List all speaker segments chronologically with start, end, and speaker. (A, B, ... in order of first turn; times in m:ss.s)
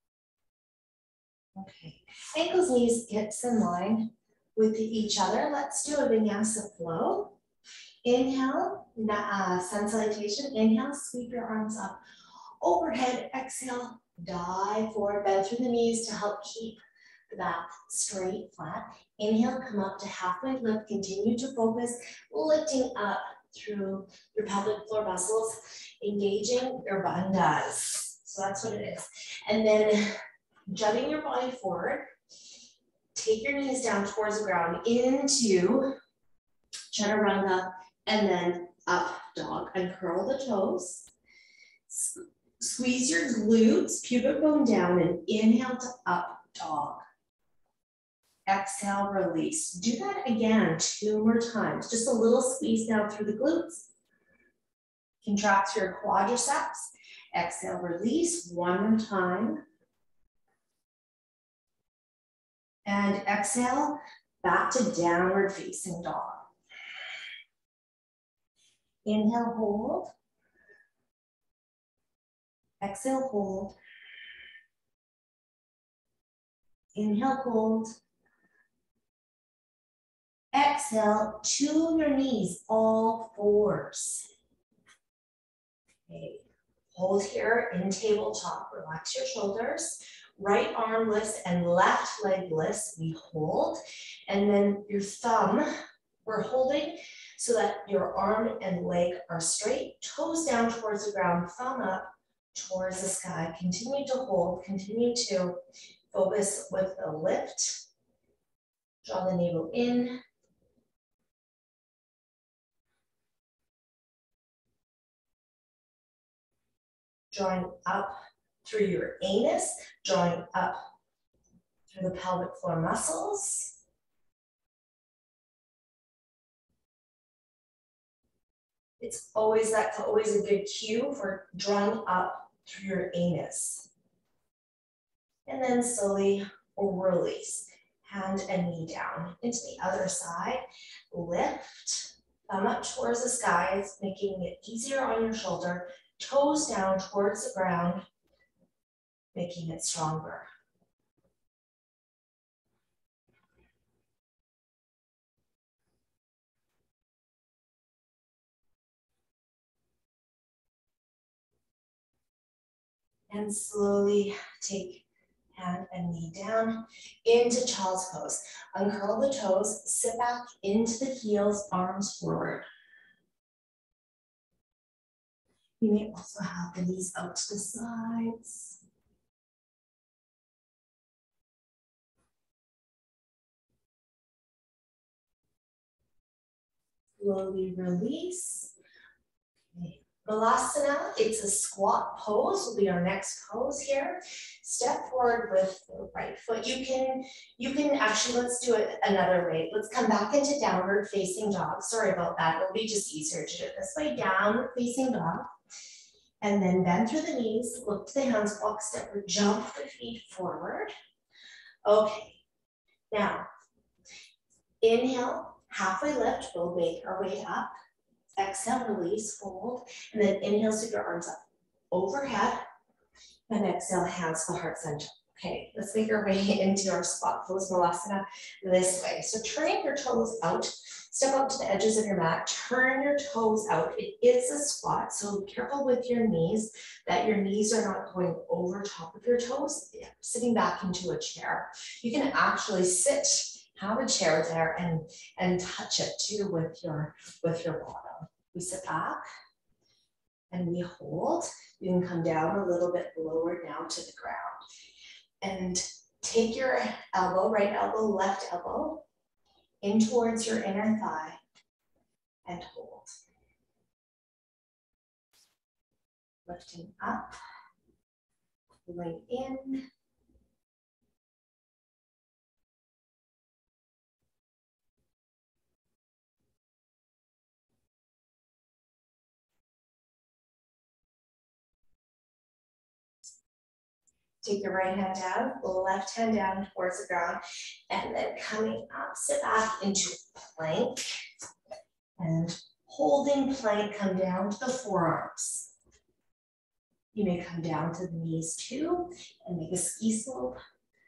0:01.6-0:07.4 A
0:08.0-0:12.0 A
0:12.6-0:30.2 A
0:30.7-0:32.1 A
0:33.2-0:35.9 A
0:36.9-0:41.1 A
0:41.9-0:47.0 A
0:48.5-0:53.9 A
0:55.2-0:59.6 A
1:02.9-1:06.5 A
1:09.0-1:10.1 A
1:12.8-1:13.8 A
1:17.0-1:18.0 A
1:20.5-1:24.3 A
1:26.1-1:35.7 A
1:36.2-1:45.6 A
1:46.1-1:47.8 A
1:49.0-1:50.2 A
1:57.3-2:00.9 A
2:01.9-2:03.8 A
2:09.0-2:13.9 A
2:15.5-2:28.0 A
2:29.3-2:30.5 A
2:43.3-2:52.6 A
2:55.8-2:58.8 A
3:07.2-3:08.7 A
3:09.7-3:25.5 A
3:26.4-3:30.9 A
3:31.8-3:32.4 A
3:33.1-3:33.5 A
3:34.8-3:37.7 A
3:38.4-3:41.4 A
3:41.9-3:42.6 A
3:43.5-4:09.2 A
4:10.5-4:14.6 A
4:15.4-4:19.1 A
4:19.8-4:21.4 A
4:22.4-4:23.1 A
4:26.4-4:27.4 A
4:28.8-4:29.9 A
4:44.4-4:51.2 A
4:52.2-4:55.7 A
4:57.1-5:00.6 A